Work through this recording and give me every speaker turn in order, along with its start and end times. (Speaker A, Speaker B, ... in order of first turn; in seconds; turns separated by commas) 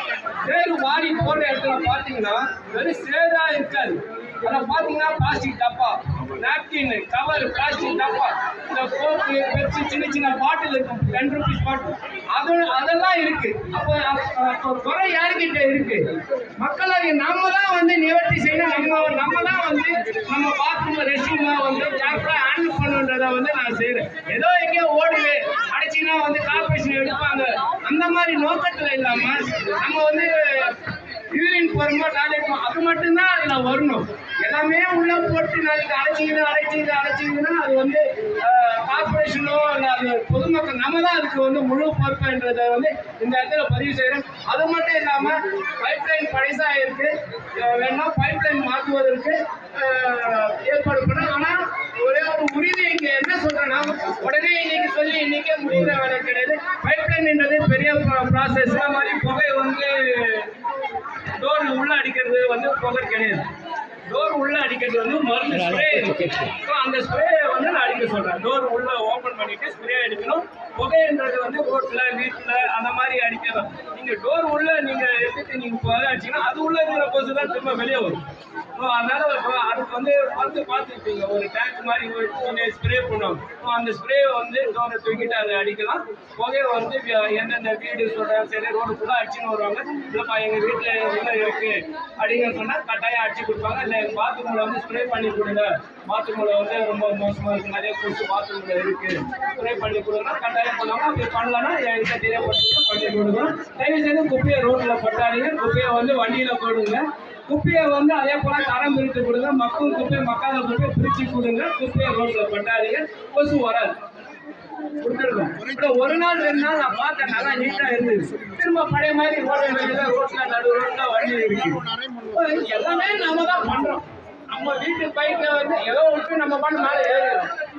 Speaker A: 0.4-60.5, Speaker A: 61.4-63.5, Speaker A: 64.1-78.2, Speaker A: 78.7-114.0, Speaker A: 115.0-127.5